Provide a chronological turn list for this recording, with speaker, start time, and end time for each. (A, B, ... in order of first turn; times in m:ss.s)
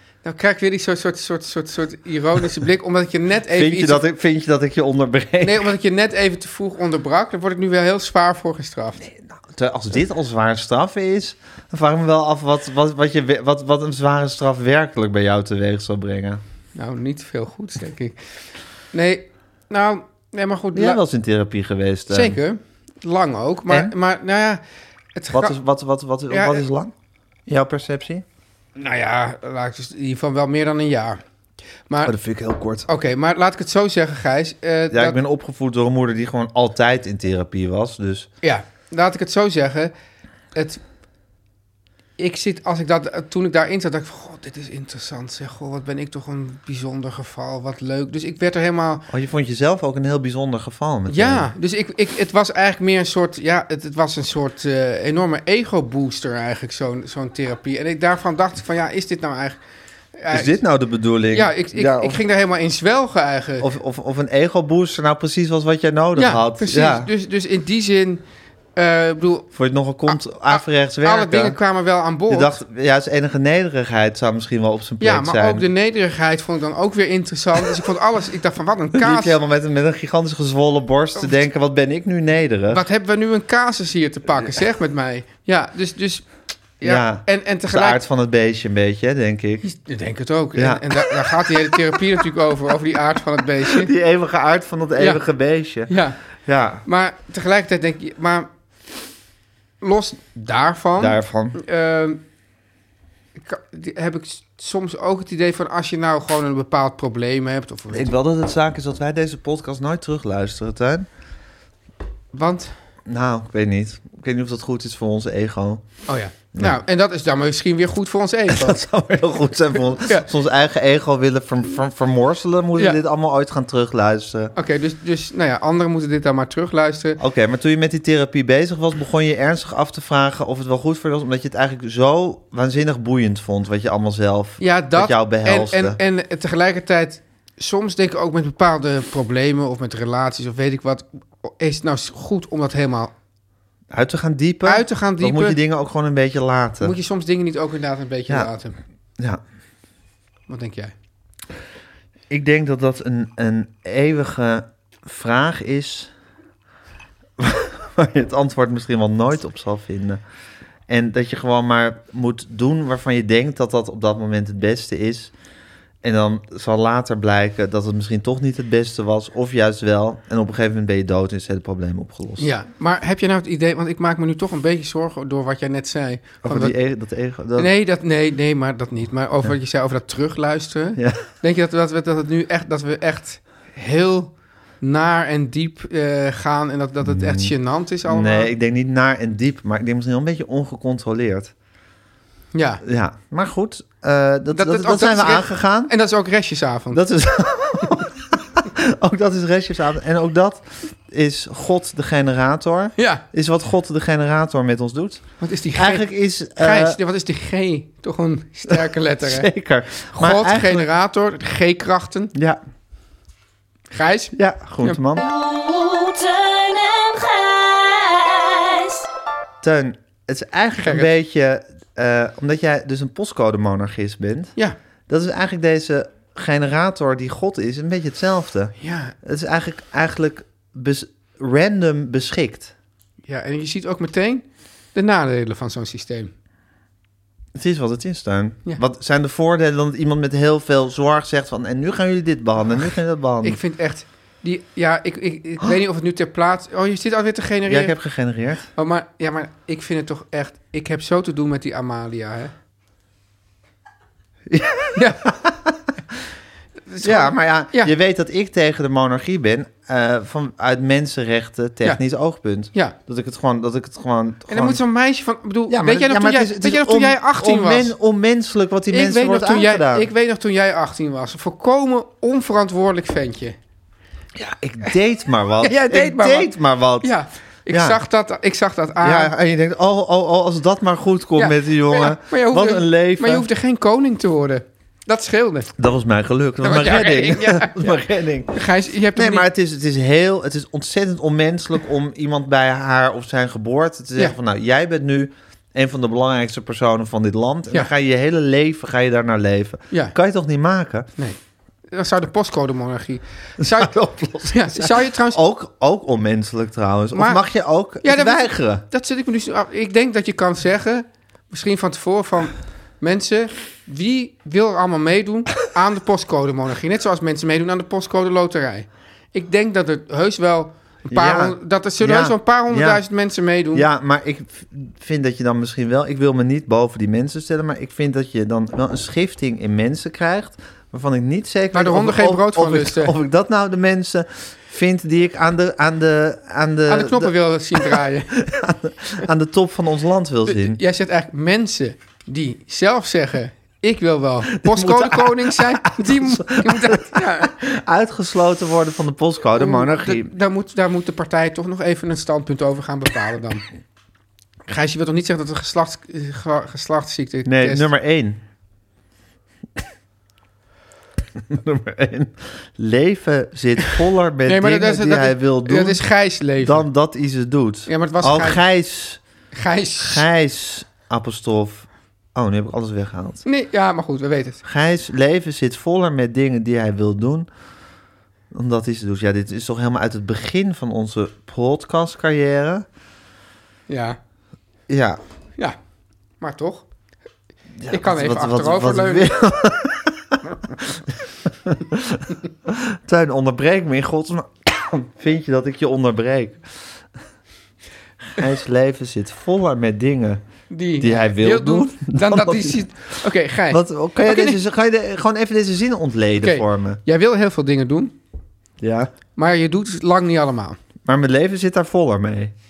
0:00.2-0:04.0 A
0:03.5-0:05.7 B
0:05.4-0:09.0 A
0:09.0-0:16.4 B
0:16.8-0:18.2 A
0:18.9-0:21.0 A
0:20.7-0:22.4 B
0:22.1-0:24.6 A
0:25.2-0:25.6 A
0:25.3-0:26.9 B
0:26.3-0:26.6 A
0:27.5-0:28.2 B
0:28.8-0:31.2 A
0:31.9-0:32.1 A
0:32.0-0:32.9 B
0:32.9-0:35.2 A
0:34.9-0:38.3 B
0:38.4-0:39.9 A
0:40.5-0:40.8 A
0:42.2-0:49.1 A
0:49.1-0:51.5 B
0:51.1-0:59.6 A
1:00.2-1:00.5 A
1:00.3-1:02.2 B
1:01.3-1:03.7 A
1:03.6-1:07.1 B
1:06.2-1:08.2 A
1:08.8-1:09.5 A
1:09.5-1:11.6 B
1:10.1-1:12.6 A
1:12.3-1:15.7 B
1:15.0-1:19.4 A
1:19.0-1:22.8 B
1:22.7-1:26.3 A
1:26.8-1:28.0 A
1:26.8-1:29.6 B
1:29.6-1:33.9 A
1:30.6-1:31.8 B
1:33.6-1:35.9 B
1:35.9-1:36.2 A
1:36.4-1:36.8 B
1:36.8-1:38.5 A
1:39.8-1:42.2 A
1:41.0-1:41.6 B
1:43.4-1:48.1 A
1:47.9-1:51.1 B
1:52.3-1:52.7 A
1:53.1-1:55.8 B
1:56.1-1:58.8 A
1:58.5-2:04.5 B
2:04.6-2:07.2 A
2:07.2-2:16.0 B
2:14.6-2:23.1 A
2:23.9-2:27.0 B
2:24.6-2:25.6 A
2:26.8-2:28.8 A
2:30.5-2:30.9 A
2:32.3-2:36.1 B
2:37.4-2:40.2 B
2:40.9-2:45.3 B
2:46.0-2:52.5 B
2:52.4-2:56.8 A
2:56.4-2:57.7 B
2:57.6-3:08.5 A
3:01.0-3:01.2 B
3:07.0-3:07.5 B
3:08.1-3:11.5 B
3:12.5-3:12.8 A
3:12.8-3:15.9 B
3:14.5-3:17.0 A
3:16.9-3:27.0 B
3:23.0-3:23.2 A
3:25.4-3:29.5 A
3:28.7-3:30.9 B
3:30.1-3:32.3 A
3:32.3-3:32.6 B
3:33.9-3:35.0 A
3:34.3-3:35.3 B
3:35.2-3:39.1 C
3:39.6-3:44.5 B
3:40.8-3:41.1 A
3:45.1-3:52.7 B
3:48.8-3:49.2 A
3:53.3-3:56.3 A
3:57.6-4:03.6 B
4:03.4-4:08.0 A
4:07.7-4:08.7 B
4:08.8-4:12.5 A
4:14.5-4:15.8 B
4:15.0-4:15.2 A
4:16.9-4:17.9 A
4:17.0-4:24.8 B
4:24.5-4:27.9 A
4:25.7-4:30.1 B
4:28.9-4:33.6 A
4:34.4-4:37.1 B
4:35.6-4:39.3 A
4:37.7-4:38.0 B
4:39.0-4:43.5 B
4:41.4-4:45.7 A
4:45.8-4:48.6 B
4:46.6-4:48.0 A
4:48.5-4:49.5 A
4:49.2-5:01.1 B
5:01.2-5:03.9 A
5:03.6-5:08.8 B
5:04.4-5:05.4 A
5:07.1-5:07.4 A
5:08.0-5:23.9 A
5:21.1-5:23.0 B
5:23.7-5:40.8 B
5:31.7-5:33.2 A
5:36.9-5:38.4 A
5:40.5-5:47.5 A
5:44.6-5:50.3 B
5:49.6-5:53.6 A
5:54.7-5:57.9 A
5:57.4-5:58.4 B
6:01.4-6:06.0 B
6:04.4-6:06.9 A
6:06.6-6:09.2 B
6:07.9-6:08.6 A
6:09.5-6:10.2 A
6:10.0-6:13.4 B
6:13.4-6:14.6 A
6:14.6-6:17.5 B
6:18.5-6:22.9 B
6:23.9-6:24.2 A
6:24.9-6:25.2 B
6:26.4-6:26.9 A
6:27.8-6:36.6 B
6:27.9-6:29.3 A
6:38.4-6:40.4 B
6:40.7-6:44.6 A
6:41.0-6:42.9 B
6:43.7-6:47.0 B
6:46.4-6:48.2 A
6:48.8-6:49.1 B
6:49.4-6:50.8 A
6:51.0-6:52.5 B